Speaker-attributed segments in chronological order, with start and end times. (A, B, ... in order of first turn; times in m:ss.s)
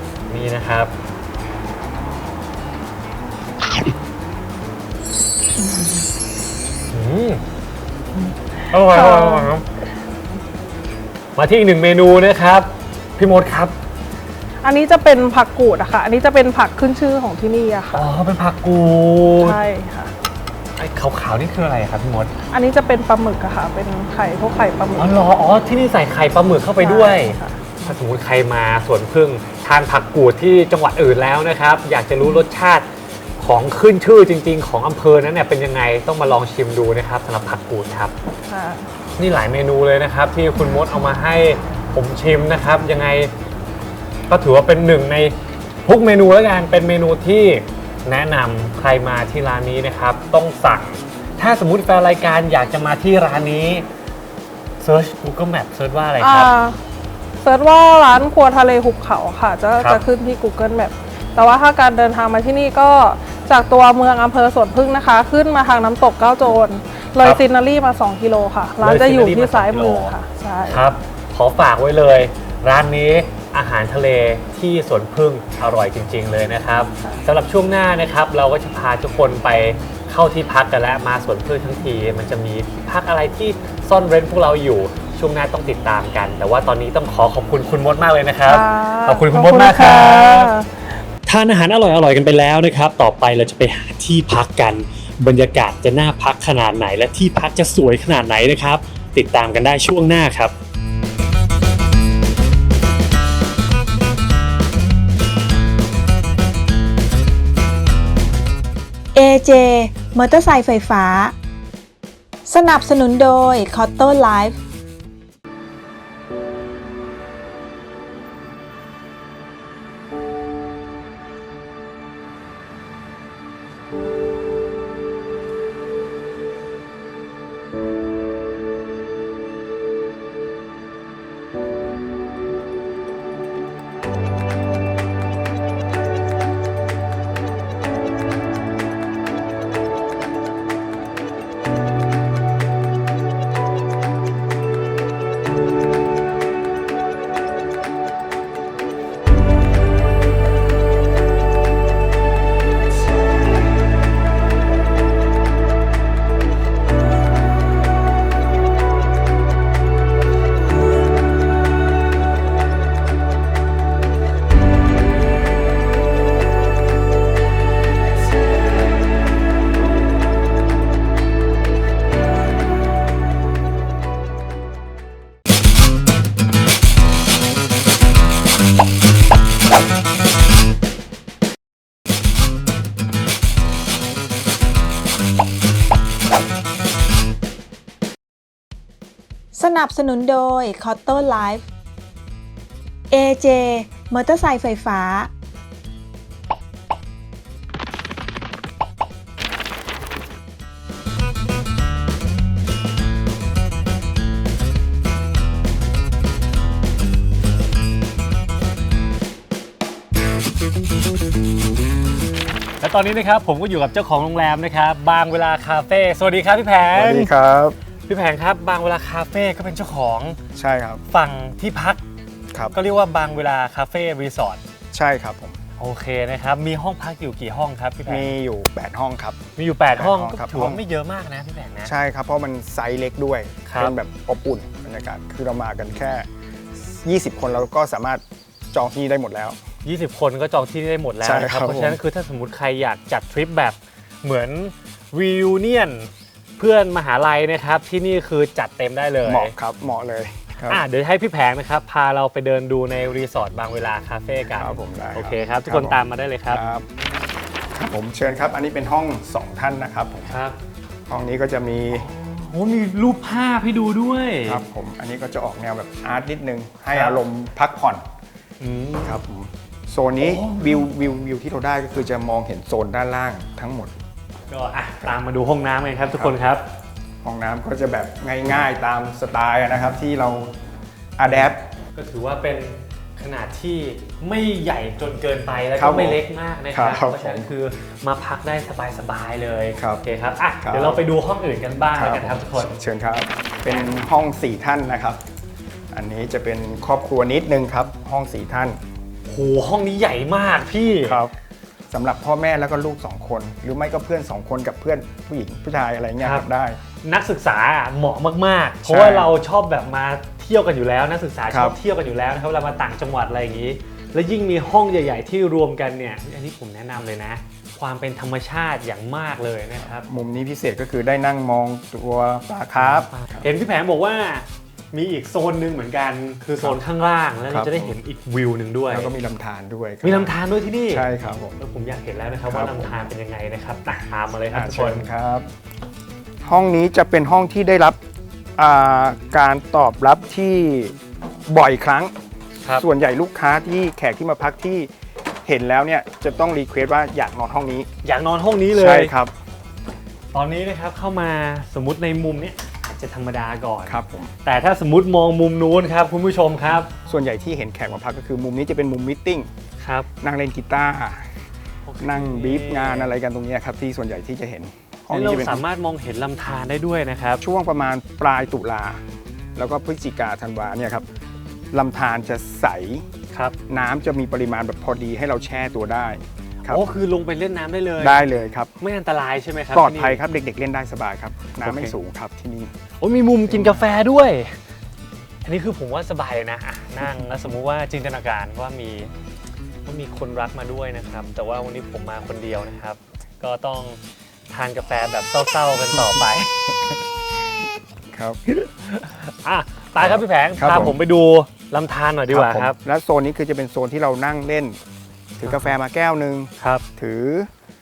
0:00.3-0:00.9 A
0:06.9-0:07.4 A
0:08.7-0:09.6 A
0:08.9-0:09.5 B
0:11.3-0:13.8 A
0:14.6-0:18.0 B
0:17.9-0:19.6 A
0:19.4-0:20.1 B
0:20.8-0:22.3 A
0:22.5-0:25.1 B
0:25.0-0:32.9 A
0:26.8-0:27.6 B
0:33.4-0:38.1 A
0:38.5-0:38.9 B
0:39.2-0:43.3 A
0:44.3-0:53.9 A
0:54.8-0:56.5 A
0:56.2-0:56.8 B
0:57.4-1:10.8 B
0:59.8-1:00.0 A
1:08.8-1:10.1 A
1:10.7-1:30.5 A
1:28.5-1:30.9 B
1:31.2-1:40.5 A
1:49.1-1:51.3 C
1:52.4-1:54.6 C
3:09.5-3:11.7 C
3:13.1-3:15.3 C
3:32.8-3:37.3 A
3:36.9-3:37.8 D
3:38.1-3:40.4 A
3:40.5-3:41.0 D
3:41.1-3:42.0 A
3:42.7-3:44.6 A
3:44.9-3:45.6 D
3:45.8-3:48.3 A
3:48.0-3:49.4 D
3:49.6-3:51.9 A
3:50.0-3:50.8 D
3:51.8-3:56.3 D
3:53.6-3:53.9 A
3:56.8-3:59.6 D
3:59.8-4:09.5 A
4:01.2-4:02.0 D
4:09.2-4:10.8 D
4:10.7-4:16.6 A
4:14.5-4:16.9 D
4:17.7-4:20.4 D
4:20.3-4:20.6 A
4:21.1-4:22.1 D
4:21.9-4:24.6 A
4:24.4-4:28.0 D
4:26.9-4:27.2 A
4:28.6-4:29.2 A
4:29.0-4:33.9 D
4:30.2-4:30.9 A
4:34.5-4:36.6 A
4:37.2-4:40.5 D
4:41.2-4:41.6 D
4:41.3-4:52.7 A
4:45.8-4:46.2 D
4:46.7-4:47.5 D
4:49.8-4:50.0 D
4:50.6-4:51.0 D
4:51.9-4:55.2 D
4:53.7-4:53.9 A
4:55.9-4:58.8 D
4:59.3-5:01.2 A
5:01.0-5:01.3 D
5:01.9-5:06.8 D
5:06.2-5:06.5 A
5:07.0-5:20.1 A
5:08.9-5:09.3 D
5:11.5-5:11.8 D
5:20.0-5:23.5 D
5:22.8-5:29.1 A
5:27.5-5:28.0 D
5:28.9-5:30.3 D
5:30.0-5:31.1 A
5:30.9-5:31.6 D
5:31.6-5:35.0 A
5:32.5-5:33.1 D
5:34.5-5:35.5 D
5:36.4-5:38.0 D
5:38.6-5:40.9 D
5:41.5-5:42.1 D
5:42.8-5:44.9 D
5:45.4-5:47.9 D
5:48.0-5:49.1 A
5:48.7-5:49.3 D
5:50.3-5:56.9 A
5:53.9-5:54.3 D
5:57.1-5:59.5 D
5:59.8-6:00.1 A
6:00.2-6:01.3 D
6:01.8-6:03.1 A
6:02.0-6:05.6 D
6:05.1-6:07.4 A
6:07.4-6:09.0 D
6:09.6-6:11.0 D
6:11.7-6:13.0 D
6:13.7-6:16.8 D
6:16.6-6:18.2 A
6:18.0-6:18.7 D
6:18.8-6:20.2 A
6:19.7-6:22.7 D
6:21.6-6:22.0 A
6:23.0-6:24.6 A
6:23.5-6:23.9 D
6:25.4-6:29.1 A
6:29.8-6:34.0 A
6:34.5-6:36.5 A
6:38.1-6:38.4 D
6:38.5-6:42.8 A
6:40.0-6:41.0 D
6:42.3-6:44.8 D
6:45.4-6:47.5 D
6:45.4-6:45.8 A
6:46.6-6:46.8 A